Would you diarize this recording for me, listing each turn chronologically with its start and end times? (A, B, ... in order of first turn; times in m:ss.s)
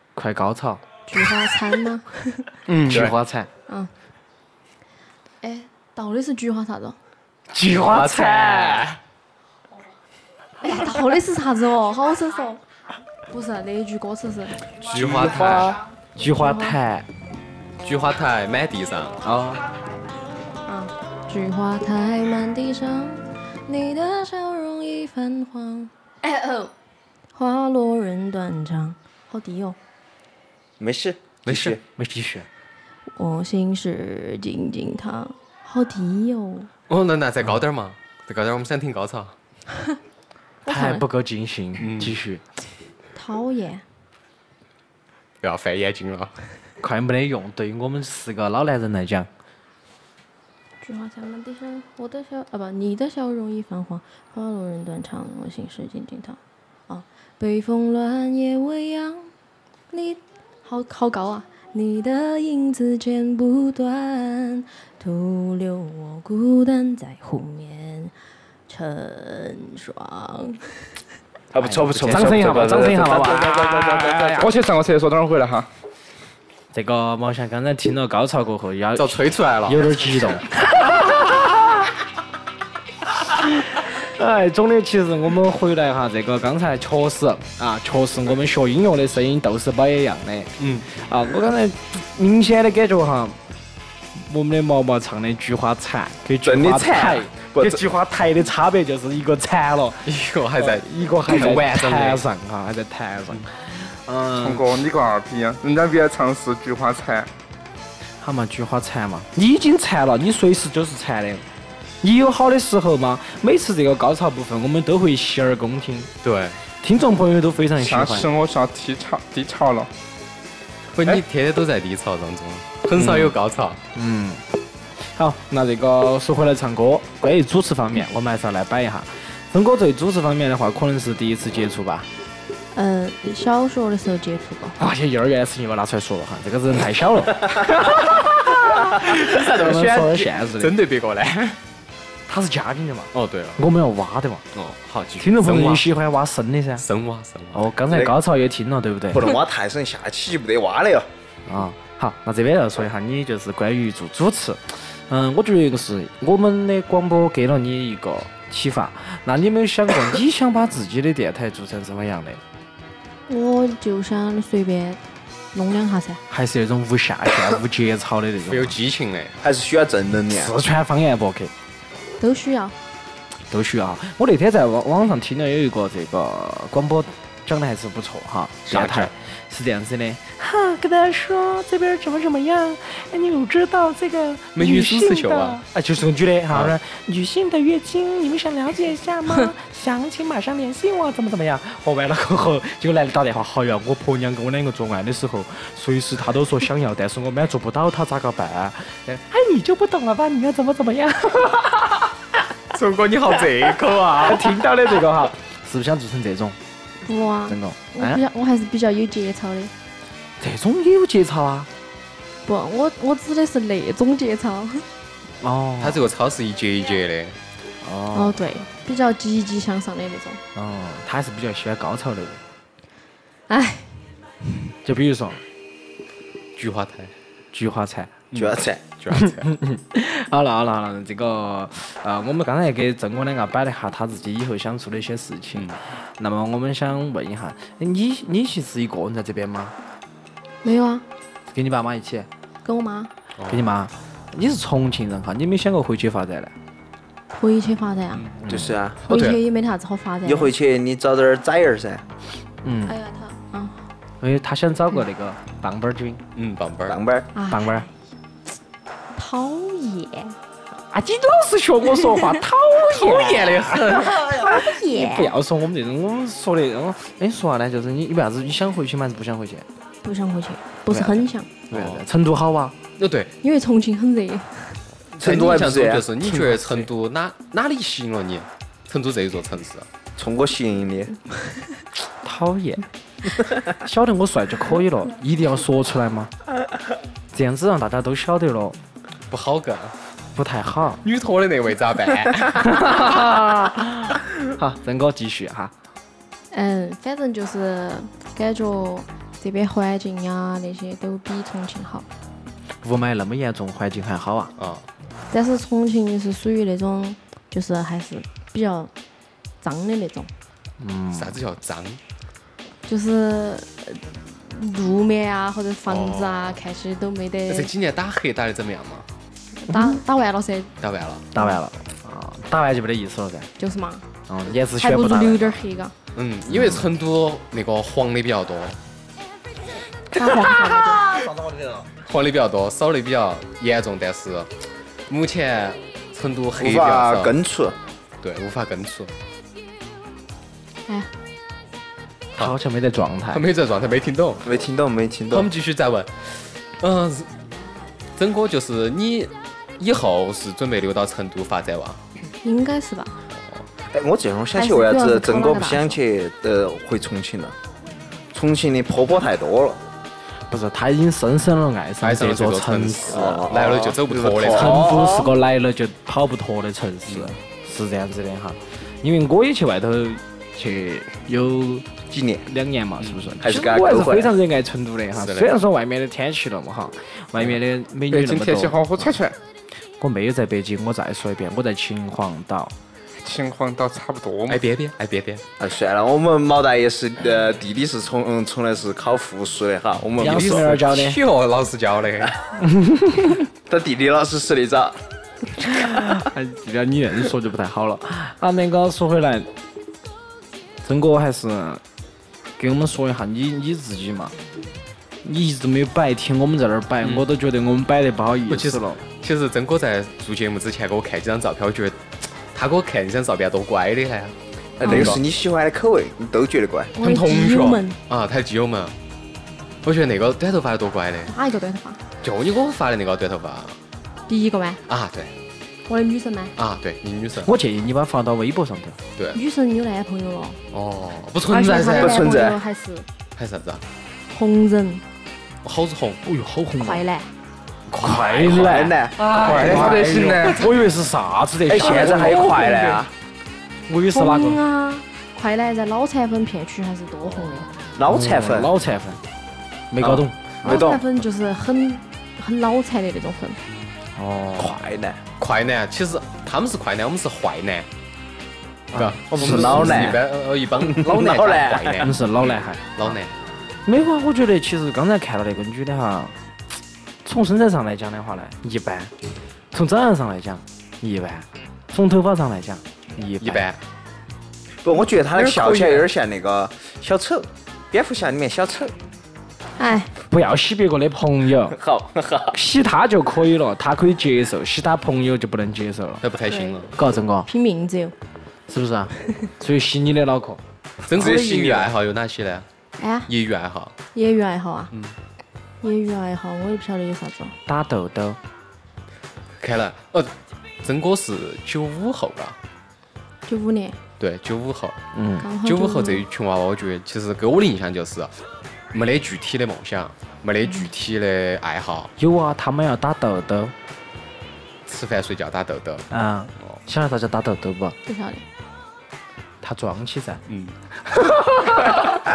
0:00.1-0:00.8 A
0:01.1-0:02.5 B
0:02.7-0:03.1 C
0:02.8-0:03.5 A
0:05.4-0:07.0 B
0:07.5-0:08.9 A
0:07.7-0:09.0 C
0:10.6-0:12.6 B
0:13.3-0:14.6 B
0:14.8-0:15.8 C
0:14.9-0:17.1 A
0:16.3-0:16.8 B
0:17.8-0:19.2 C
0:19.2-0:19.6 A
0:20.6-0:26.7 B
0:27.3-0:29.8 B
0:30.8-0:31.8 D
0:31.4-0:32.5 A
0:33.1-0:36.7 B
0:36.9-0:39.3 C
0:40.6-0:41.0 B
0:40.7-0:42.4 A
0:41.8-0:42.2 C
0:43.1-0:43.8 B
0:45.4-0:46.3 C
0:46.8-0:49.3 A
0:50.8-0:59.3 B
0:59.9-1:08.1 B
1:08.7-1:10.9 B
1:11.5-1:14.5 D
1:11.6-1:14.5 A
1:14.4-1:15.7 E
1:16.7-1:21.9 A
1:19.0-1:20.3 C
1:23.2-1:33.4 A
1:30.6-1:30.9 C
1:34.1-1:44.8 A
1:36.4-1:37.8 D
1:40.0-1:42.2 C
1:44.4-1:47.3 E
1:48.2-1:51.5 A
1:52.0-1:56.1 A
1:56.2-1:56.6 C
1:56.8-1:58.3 A
1:57.8-1:59.9 E
2:00.9-2:03.8 C
2:03.0-2:03.3 A
2:03.9-2:04.4 A
2:05.0-2:12.1 A
2:12.7-2:14.8 B
2:14.8-2:20.8 A
2:19.0-2:21.6 C
2:22.3-2:24.5 A
2:23.1-2:23.6 C
2:24.5-2:25.9 C
2:25.2-2:26.8 A
2:26.8-2:27.6 C
2:27.5-2:29.4 A
2:27.9-2:28.1 D
2:29.1-2:31.1 D
2:31.5-2:42.4 A
2:43.3-2:45.0 B
2:45.5-2:46.2 B
2:46.3-2:48.8 A
2:48.5-2:49.4 C
2:49.4-2:50.5 D
2:50.3-2:51.5 A
2:52.2-2:52.7 B
2:53.5-3:22.1 A
2:58.7-2:59.1 C
3:04.5-3:05.6 C
3:22.7-3:24.6 C
3:23.9-3:26.6 A
3:27.0-3:29.7 B
3:27.5-3:28.2 A
3:30.4-3:31.7 A
3:32.4-3:34.8 B
3:35.4-3:36.0 A
3:35.8-3:37.4 C
3:37.8-3:38.4 A
3:38.1-3:40.4 B
3:40.5-3:42.4 A
3:43.5-3:44.0 B
3:44.8-3:45.4 A
3:46.6-3:47.1 C
3:47.5-3:48.2 A
3:48.3-3:49.5 C
3:48.3-3:48.8 D
3:49.1-3:59.7 A
3:55.5-3:55.8 C
4:00.6-4:01.0 B
4:01.5-4:02.3 A
4:02.6-4:03.1 B
4:03.4-4:03.6 C
4:03.5-4:06.5 A
4:07.3-4:08.3 B
4:08.4-4:08.8 A
4:08.4-4:09.0 D
4:09.0-4:09.4 C
4:09.1-4:10.5 B
4:10.2-4:12.0 D
4:12.6-4:13.0 A
4:12.8-4:13.8 B
4:14.2-4:16.2 A
4:16.3-4:17.0 C
4:16.9-4:17.3 D
4:17.3-4:17.9 B
4:17.5-4:17.9 A
4:19.2-4:20.4 B
4:20.9-4:29.6 A
4:22.8-4:24.5 C
4:24.2-4:25.3 B
4:30.0-4:31.5 B
4:30.9-4:32.7 A
4:31.7-4:32.0 C
4:33.0-4:33.3 C
4:33.4-4:34.8 B
4:35.1-4:39.8 C
4:35.2-4:36.1 D
4:36.2-4:36.9 A
4:40.2-4:41.1 D
4:42.2-4:46.3 A
4:47.3-4:48.8 A
4:49.3-4:50.0 C
4:50.3-4:51.0 A
4:51.0-4:53.1 C
4:52.5-4:55.7 A
4:56.5-5:02.1 B
5:02.8-5:04.5 A
5:04.6-5:04.8 C
5:05.3-5:08.9 B
5:09.6-5:10.3 B
5:10.8-5:11.4 A
5:11.1-5:12.0 C
5:12.9-5:17.7 B
5:15.9-5:16.6 C
5:17.5-5:19.1 C
5:19.6-5:20.7 B
5:19.7-5:20.0 A
5:20.8-5:21.3 C
5:21.3-5:23.5 A
5:23.6-5:24.0 B
5:24.3-5:25.6 A
5:24.8-5:25.9 B
5:26.1-5:28.8 C
5:26.5-5:26.8 A
5:30.1-5:31.1 B
5:32.0-5:34.5 C
5:35.1-5:37.3 C
5:36.6-5:37.8 D
5:38.2-5:39.1 C
5:42.4-5:43.4 A
5:43.3-5:44.4 C
5:44.4-5:45.5 D
5:45.3-5:47.3 C
5:48.2-5:52.0 C
5:52.4-5:53.2 B
5:53.9-5:57.5 D
5:54.5-5:56.0 B
5:58.3-5:59.8 D
6:00.5-6:03.5 A
6:02.0-6:05.1 C
6:03.1-6:05.3 D
6:04.5-6:19.1 A
6:12.1-6:12.4 D
6:13.0-6:13.4 C
6:13.4-6:14.3 D
6:15.1-6:15.5 C
6:18.1-6:19.4 E
6:20.0-6:22.7 A
6:23.2-6:24.6 E
6:24.5-6:25.4 C
6:25.6-6:30.7 D
6:30.2-6:31.2 A
6:30.2-6:32.4 C
6:32.6-6:33.4 A
6:33.7-6:35.0 D
6:35.6-6:39.5 A
6:40.8-6:41.8 A
6:42.6-6:44.3 A
6:45.2-6:49.0 A
6:47.0-6:47.3 C
6:48.5-6:55.2 C
6:54.8-6:56.9 D
6:54.8-6:55.2 B
6:57.0-6:58.0 B
6:57.0-6:58.9 C
6:59.8-7:01.3 C
7:01.3-7:02.0 B
7:02.2-7:03.8 C
7:04.3-7:04.8 B
7:04.9-7:05.3 C
7:05.9-7:06.5 B
7:06.6-7:07.5 C
7:07.4-7:09.0 A
7:09.3-7:10.6 B
7:10.7-7:12.3 C
7:11.5-7:13.0 B
7:11.8-7:12.6 D
7:13.4-7:13.8 C
7:14.3-7:15.0 B
7:15.6-7:16.2 C
7:16.2-7:17.0 A
7:16.8-7:17.3 B
7:17.9-7:19.6 C
7:17.9-7:23.0 A
7:18.5-7:20.2 D
7:19.4-7:20.7 E
7:21.7-7:23.1 D
7:23.9-7:24.6 A
7:24.1-7:27.7 B
7:27.2-7:27.6 C
7:27.9-7:28.7 D
7:28.0-7:29.2 A
7:29.9-7:30.9 A
7:30.0-7:31.0 D
7:30.6-7:33.6 B
7:34.2-7:34.8 A
7:34.6-7:35.2 D
7:35.4-7:37.9 C
7:38.9-7:40.2 A
7:38.9-7:43.3 C
7:39.3-7:40.2 D
7:40.8-7:42.1 D
7:41.9-7:43.2 A
7:43.8-7:46.3 A
7:47.2-7:49.1 A
7:49.7-7:53.7 A
7:53.4-7:53.8 C
7:54.8-7:58.9 D
7:55.3-7:56.1 C
7:59.8-8:00.1 B
8:00.2-8:01.8 A
8:01.8-8:02.6 D
8:02.5-8:06.2 A
8:06.2-8:07.0 C
8:06.4-8:06.8 B
8:06.9-8:07.5 A
8:07.4-8:08.1 B
8:08.7-8:10.6 A
8:11.1-8:12.6 C
8:11.1-8:11.9 D
8:13.0-8:13.3 B
8:13.3-8:13.9 C
8:14.1-8:14.9 B
8:15.8-8:17.6 B
8:17.7-8:18.4 A
8:19.6-8:22.6 C
8:23.4-8:24.0 B
8:24.2-8:25.0 C
8:25.1-8:25.4 A
8:25.4-8:26.2 B
8:25.6-8:32.1 C
8:32.2-8:33.7 A
8:34.9-8:36.1 C
8:36.1-8:38.0 A
8:38.0-8:38.4 B
8:39.6-8:40.4 A
8:40.5-8:40.8 C
8:41.0-8:42.0 A